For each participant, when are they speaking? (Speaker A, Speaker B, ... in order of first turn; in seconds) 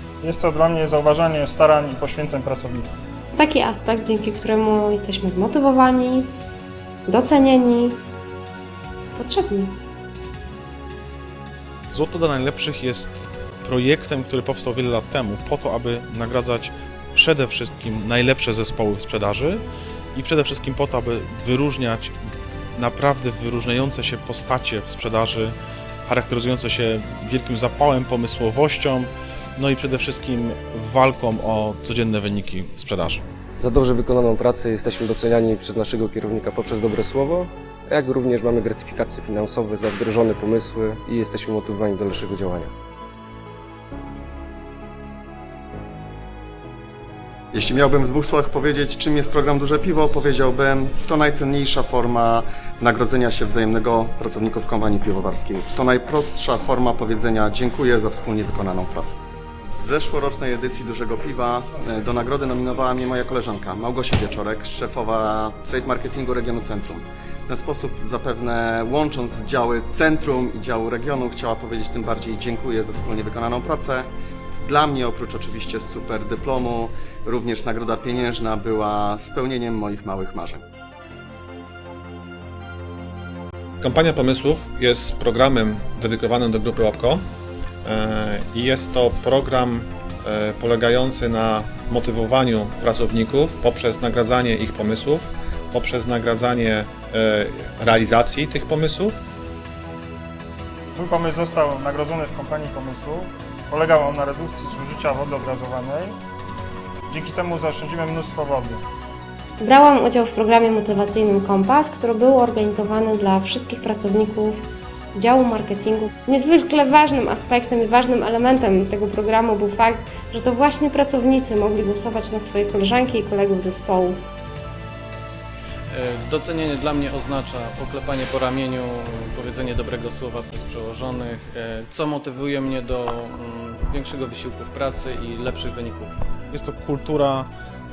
Speaker A: 0.2-3.0, 101.0-106.2, 107.1-108.8
Speaker B: 3.4-6.3, 7.1-8.0, 9.2-9.8, 109.6-124.2
Speaker C: 11.9-19.6, 20.1-22.1, 22.8-25.6, 26.1-33.2, 136.5-137.5
Speaker D: 33.6-42.7
Speaker E: 47.5-74.1, 74.6-80.6
Speaker F: 83.8-87.2, 87.8-99.2
Speaker G: 125.9-136.3